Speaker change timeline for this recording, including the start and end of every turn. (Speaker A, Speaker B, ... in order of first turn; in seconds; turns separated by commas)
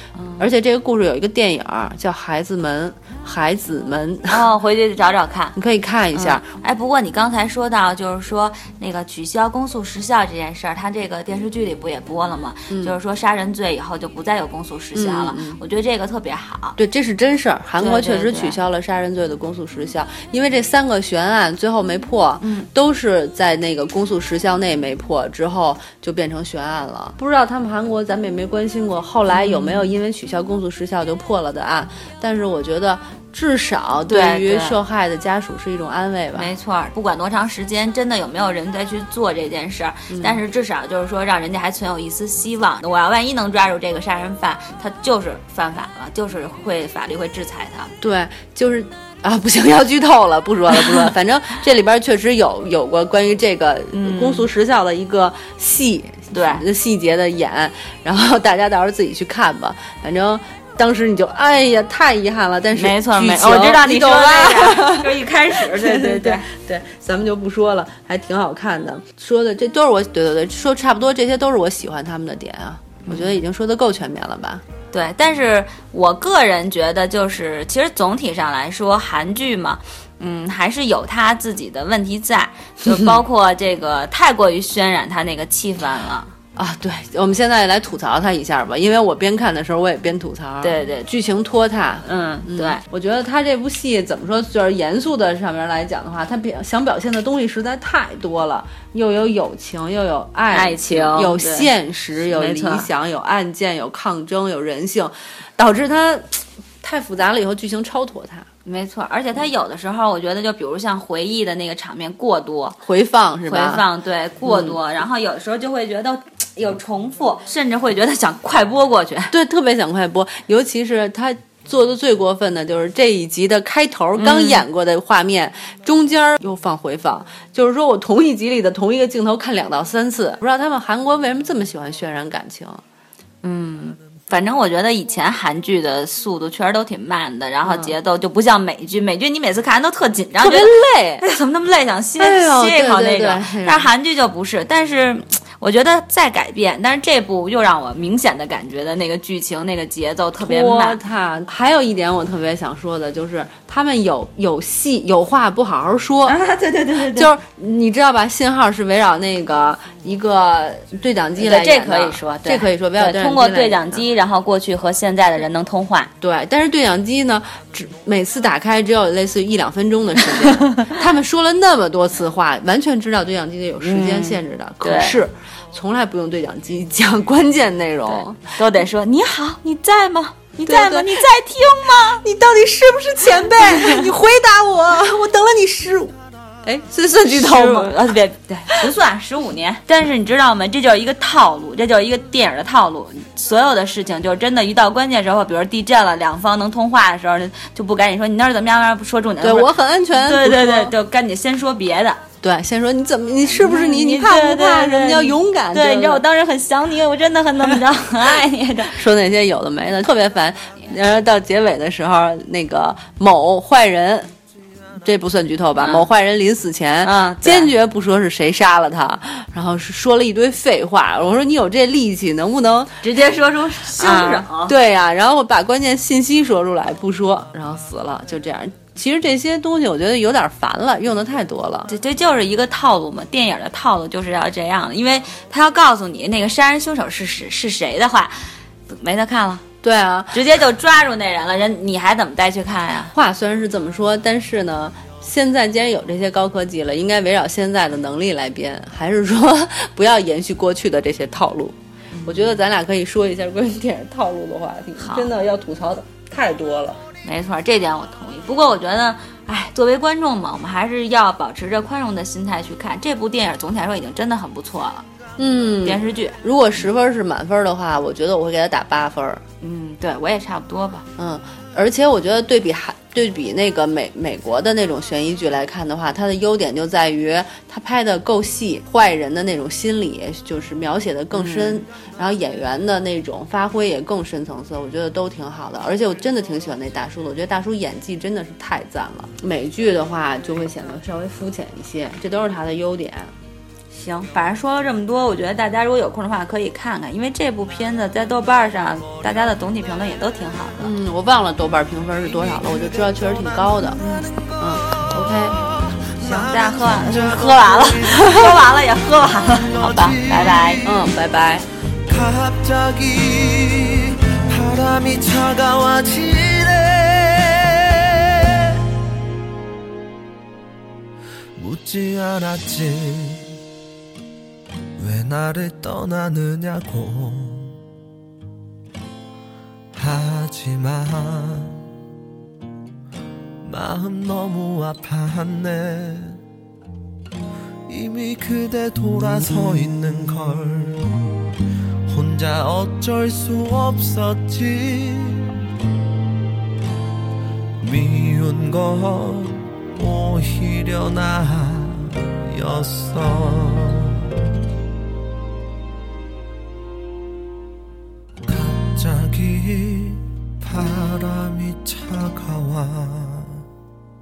Speaker A: 0.1-0.5, Speaker B: 0.4-4.5, Speaker A: 4.3-5.5, Speaker B: 5.5-6.4, Speaker A: 6.1-16.8, Speaker B: 12.7-12.9, Speaker B: 14.9-15.6, Speaker B: 16.8-36.5, Speaker A: 17.8-18.6, Speaker A: 22.4-22.7, Speaker A: 29.3-29.9, Speaker A: 34.1-34.8, Speaker A: 36.4-47.9, Speaker B: 40.1-40.4, Speaker B: 48.0-74.6, Speaker A: 53.9-54.5, Speaker A: 56.3-56.6, Speaker A: 62.7-66.4, Speaker A: 73.0-73.3, Speaker A: 74.9-86.3, Speaker B: 82.8-83.1, Speaker B: 86.5-108.5, Speaker A: 90.6-91.1, Speaker A: 92.0-92.8, Speaker A: 100.5-101.7, Speaker A: 102.2-102.9, Speaker A: 108.6-112.8, Speaker B: 112.8-113.8, Speaker A: 113.5-119.3, Speaker B: 114.4-114.8, Speaker B: 119.3-132.8, Speaker A: 124.2-124.6, Speaker A: 133.4-151.0, Speaker B: 137.6-137.9, Speaker B: 140.4-141.2, Speaker B: 142.2-143.9, Speaker B: 150.4-156.4, Speaker A: 156.2-157.3, Speaker B: 156.9-164.0, Speaker A: 161.4-166.1, Speaker B: 166.2-178.4, Speaker A: 170.5-170.9, Speaker A: 173.8-175.2, Speaker A: 178.1-182.2, Speaker B: 180.6-181.3, Speaker B: 182.1-188.0, Speaker A: 183.5-184.1, Speaker A: 187.3-202.2, Speaker B: 199.4-200.9, Speaker B: 202.4-206.2, Speaker A: 203.5-208.9, Speaker B: 208.9-214.3, Speaker B: 215.0-222.9, Speaker A: 215.8-216.1, Speaker A: 217.0-217.7, Speaker A: 223.0-224.7, Speaker B: 224.0-231.9, Speaker A: 231.9-238.3, Speaker A: 238.9-239.6, Speaker B: 239.8-240.4, Speaker A: 240.3-243.1, Speaker B: 243.1-257.0, Speaker A: 252.2-252.5, Speaker A: 255.0-255.3, Speaker A: 257.2-265.0, Speaker B: 265.4-269.4, Speaker A: 265.8-266.4, Speaker A: 269.6-271.0, Speaker B: 271.2-293.3, Speaker A: 281.3-281.8, Speaker A: 293.9-300.9, Speaker B: 300.8-304.0, Speaker C: 302.4-304.1, Speaker B: 304.6-305.6, Speaker C: 306.0-308.6, Speaker A: 306.2-310.9, Speaker C: 309.5-311.0, Speaker B: 310.8-311.7, Speaker C: 312.1-319.0, Speaker C: 321.6-323.4, Speaker C: 325.0-327.7, Speaker C: 329.9-331.8, Speaker C: 333.6-336.4, Speaker C: 337.9-341.2, Speaker C: 342.1-345.5, Speaker C: 347.8-354.4, Speaker C: 358.5-363.6